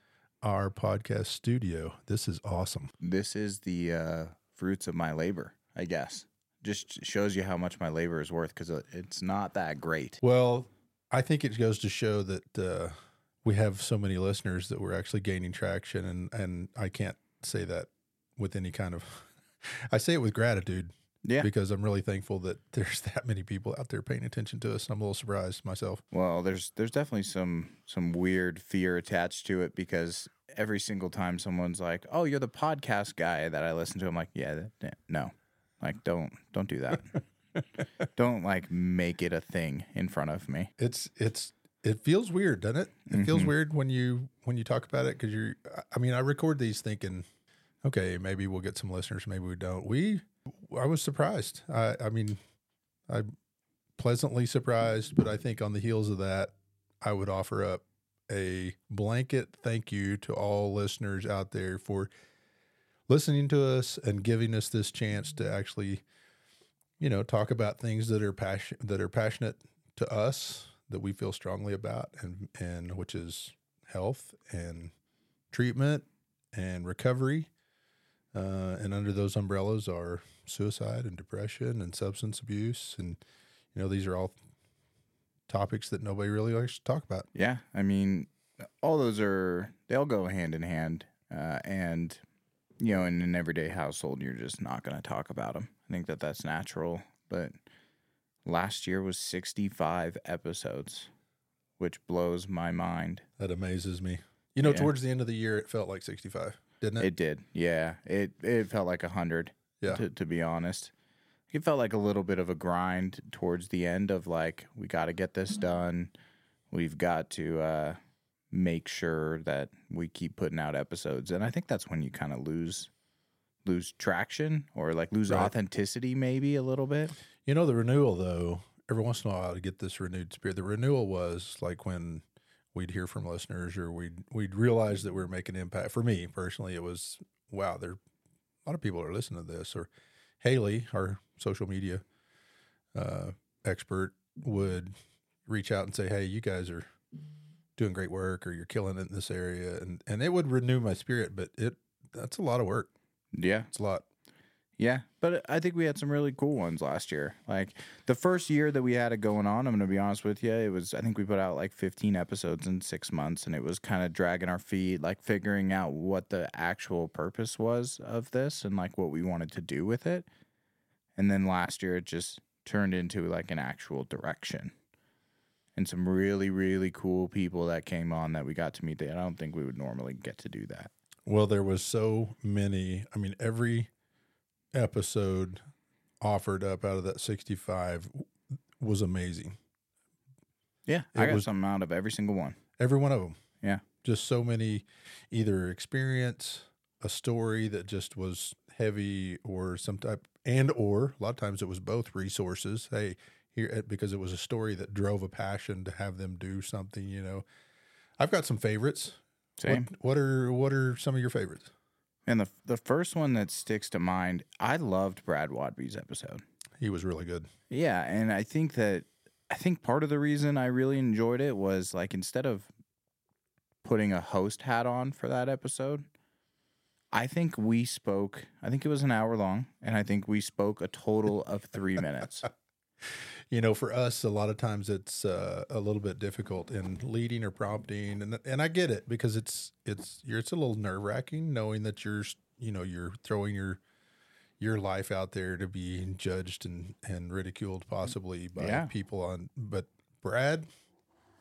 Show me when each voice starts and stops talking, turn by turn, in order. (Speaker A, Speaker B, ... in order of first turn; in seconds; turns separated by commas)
Speaker A: 0.4-2.9, Speaker B: 3.0-10.2, Speaker A: 10.2-26.0, Speaker B: 21.2-21.5, Speaker B: 26.1-37.2, Speaker B: 38.1-40.7, Speaker A: 40.8-47.2, Speaker B: 43.1-43.5, Speaker A: 47.8-52.4, Speaker A: 54.0-62.1, Speaker A: 63.1-66.0, Speaker A: 67.0-74.9, Speaker A: 75.5-77.5, Speaker A: 78.3-83.2, Speaker A: 83.7-84.3, Speaker A: 85.5-87.3, Speaker B: 87.3-92.2, Speaker B: 92.8-97.6, Speaker B: 98.4-101.1, Speaker B: 101.8-103.2, Speaker A: 103.4-107.1, Speaker B: 104.6-104.9, Speaker B: 107.0-110.9, Speaker B: 111.5-116.1, Speaker B: 116.7-118.0, Speaker B: 118.5-122.9, Speaker B: 123.6-127.2, Speaker A: 127.4-138.0, Speaker A: 138.6-139.9, Speaker A: 140.4-142.0, Speaker A: 142.9-144.9, Speaker A: 145.4-146.9, Speaker A: 147.8-152.9, Speaker B: 153.3-153.7, Speaker A: 153.7-154.0, Speaker B: 154.8-170.2, Speaker B: 171.2-174.7, Speaker B: 175.8-180.9, Speaker A: 181.2-183.9, Speaker A: 184.7-185.6, Speaker A: 186.2-188.3, Speaker A: 188.8-189.6, Speaker B: 190.8-192.6, Speaker A: 191.1-191.5, Speaker A: 192.8-193.4, Speaker A: 194.0-207.4, Speaker A: 208.2-211.7, Speaker B: 209.6-209.9, Speaker B: 212.3-216.4, Speaker A: 216.8-217.5, Speaker B: 217.7-222.7, Speaker B: 223.8-226.1, Speaker B: 227.1-232.5, Speaker A: 233.0-243.8, Speaker A: 244.6-250.7, Speaker B: 248.6-248.9